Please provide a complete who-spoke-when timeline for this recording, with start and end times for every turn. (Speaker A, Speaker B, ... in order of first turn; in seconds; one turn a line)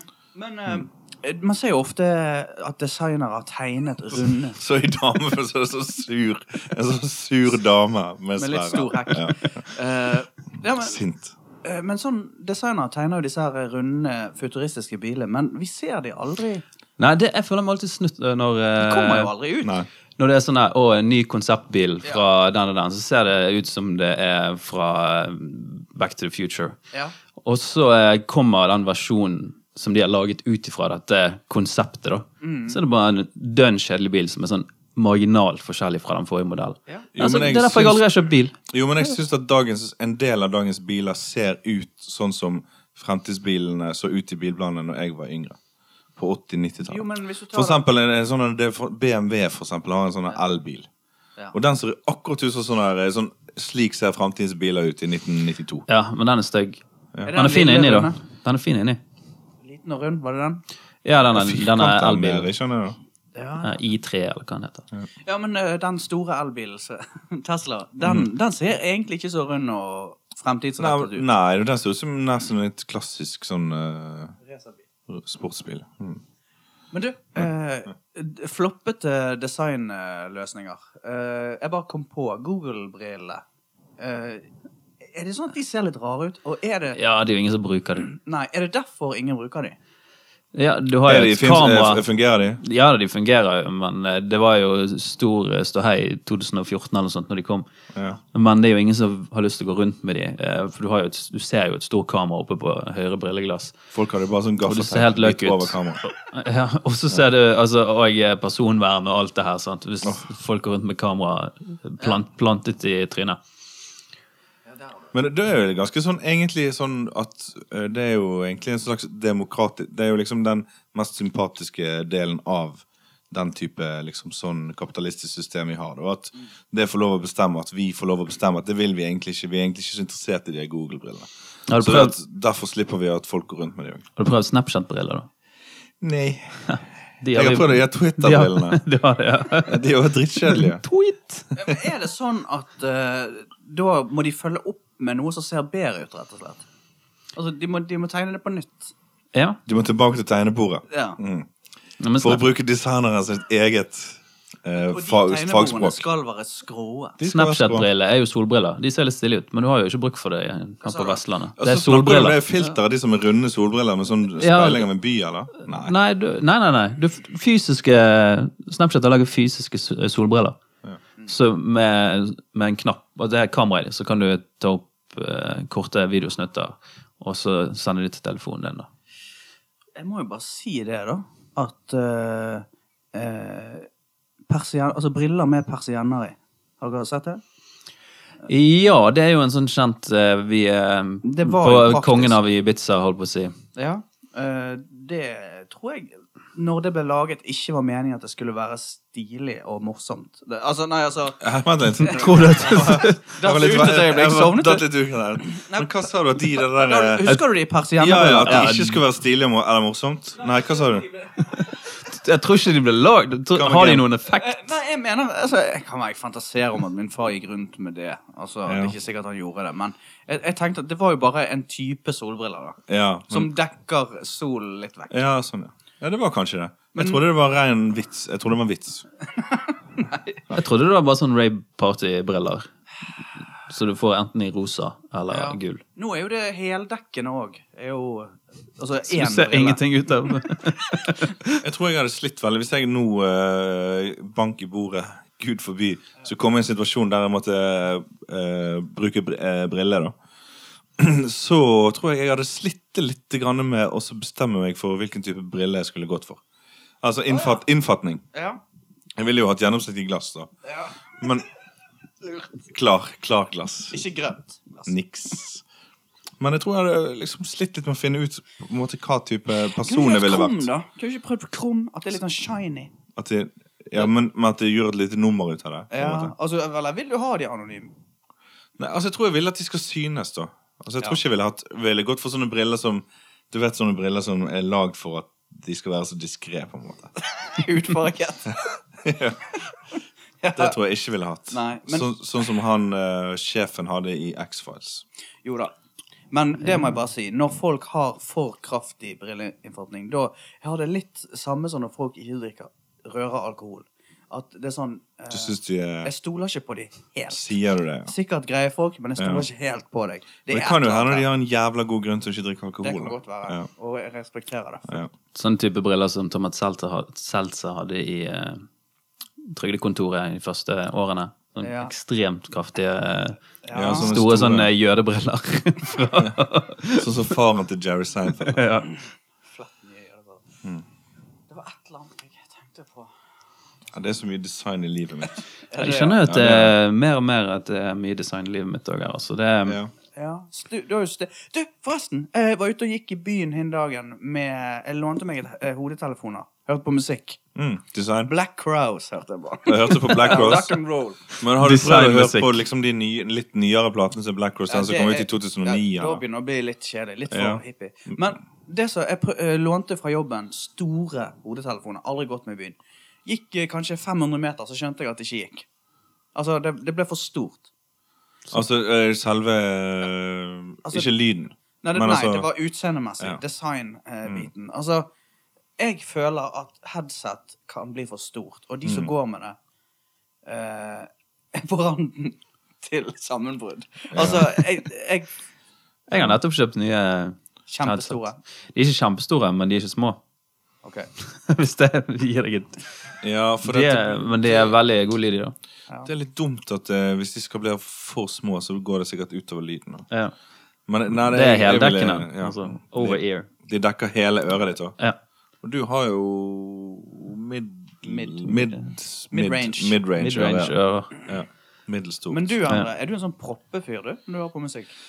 Speaker A: 0.3-4.6
Speaker B: 4.5-9.6
Speaker A: 8.4-11.0
Speaker B: 10.8-11.3
Speaker A: 11.6-16.6
Speaker C: 17.0-19.3
Speaker A: 18.8-19.8
Speaker B: 19.6-19.9
Speaker C: 20.2-26.8
Speaker C: 27.4-38.6
Speaker A: 32.4-32.8
Speaker B: 37.1-38.0
Speaker B: 38.7-45.6
Speaker B: 46.2-50.9
Speaker A: 46.9-47.8
Speaker B: 51.5-55.9
Speaker C: 55.9-56.8
Speaker A: 57.2-58.2
Speaker C: 57.3-59.0
Speaker A: 59.6-60.6
Speaker C: 61.0-62.5
Speaker B: 61.3-63.0
Speaker A: 63.4-63.8
Speaker C: 63.6-64.8
Speaker A: 65.2-71.3
Speaker B: 68.0-68.3
Speaker B: 70.8-74.4
Speaker B: 75.1-76.2
Speaker A: 76.9-83.4
Speaker A: 84.0-84.5
Speaker A: 85.0-87.0
Speaker C: 86.9-88.1
Speaker A: 88.0-89.8
Speaker C: 90.5-92.1
Speaker B: 91.1-92.6
Speaker C: 92.6-97.7
Speaker B: 97.9-98.2
Speaker C: 98.3-103.8
Speaker B: 103.9-106.0
Speaker C: 104.6-113.4
Speaker B: 115.1-134.1
Speaker C: 131.7-132.2
Speaker C: 134.2-135.3
Speaker B: 136.0-136.7
Speaker C: 136.7-139.8
Speaker B: 137.3-138.8
Speaker B: 139.7-140.8
Speaker C: 140.4-141.5
Speaker A: 141.5-146.7
Speaker A: 147.3-148.9
Speaker C: 149.3-149.6
Speaker B: 149.7-151.5
Speaker A: 150.9-151.2
Speaker C: 152.0-152.4
Speaker B: 152.2-156.1
Speaker A: 154.8-157.2
Speaker B: 157.2-157.9
Speaker C: 157.2-162.4
Speaker A: 160.8-161.2
Speaker B: 161.6-166.0
Speaker C: 164.4-164.9
Speaker C: 165.7-170.6
Speaker C: 171.3-178.9
Speaker A: 180.0-183.9
Speaker A: 184.5-187.4
Speaker C: 188.5-193.6
Speaker A: 191.2-192.4
Speaker A: 193.8-201.4
Speaker B: 201.4-207.3
Speaker C: 202.0-203.2
Speaker A: 202.0-208.8
Speaker B: 208.0-211.1
Speaker C: 208.4-209.0
Speaker C: 211.5-214.7
Speaker B: 213.5-214.1
Speaker A: 214.3-225.2
Speaker B: 218.7-218.9
Speaker B: 222.9-223.5
Speaker B: 225.1-229.0
Speaker A: 226.9-227.2
Speaker A: 229.4-230.4
Speaker C: 230.5-232.7
Speaker C: 233.6-235.8
Speaker A: 235.3-239.8
Speaker C: 239.1-241.6
Speaker B: 241.6-250.2
Speaker B: 251.0-256.4
Speaker B: 257.0-258.2
Speaker A: 257.3-257.6
Speaker A: 258.3-258.6
Speaker B: 259.2-260.5
Speaker A: 260.6-261.0
Speaker B: 261.2-261.5
Speaker B: 262.7-264.0
Speaker A: 263.9-264.9
Speaker B: 264.9-265.6
Speaker B: 266.4-270.7
Speaker A: 269.7-272.9
Speaker B: 273.1-276.3
Speaker A: 275.9-277.9
Speaker B: 278.8-287.1
Speaker A: 287.3-288.8
Speaker B: 289.0-289.5
Speaker A: 290.4-290.8
Speaker B: 290.6-295.1
Speaker A: 291.5-292.1
Speaker A: 295.4-295.7
Speaker A: 296.3-311.3
Speaker B: 305.3-306.1
Speaker B: 307.3-308.1
Speaker B: 309.2-309.5
Speaker B: 310.5-313.7
Speaker A: 312.8-315.1
Speaker C: 315.4-318.7
Speaker C: 319.5-327.1
Speaker A: 321.6-321.9
Speaker A: 323.6-324.2
Speaker B: 323.7-324.7
Speaker B: 326.9-328.7
Speaker C: 328.4-328.9
Speaker A: 329.5-330.4
Speaker A: 331.5-333.1
Speaker B: 333.9-335.4
Speaker A: 335.7-336.2
Speaker C: 335.8-339.8
Speaker B: 336.2-336.8
Speaker B: 339.6-339.9
Speaker A: 340.2-347.4
Speaker B: 347.6-348.3
Speaker A: 348.2-351.2
Speaker B: 349.7-350.7
Speaker B: 351.4-356.2
Speaker C: 351.6-352.6
Speaker A: 354.7-365.7
Speaker B: 357.3-357.6
Speaker A: 366.4-367.7
Speaker B: 368.5-372.5
Speaker A: 371.8-375.1
Speaker A: 375.8-379.6
Speaker B: 378.9-379.1
Speaker A: 380.5-385.3
Speaker B: 384.1-384.5
Speaker C: 386.1-390.2
Speaker B: 386.1-386.4
Speaker A: 387.7-388.4
Speaker A: 390.8-391.1
Speaker C: 391.5-392.8
Speaker B: 393.2-394.7
Speaker C: 393.6-395.6
Speaker B: 396.1-400.1
Speaker B: 400.9-405.0
Speaker C: 401.2-403.5
Speaker B: 405.6-412.6
Speaker A: 408.1-408.7
Speaker A: 409.3-410.0
Speaker C: 410.2-411.1
Speaker A: 412.3-414.9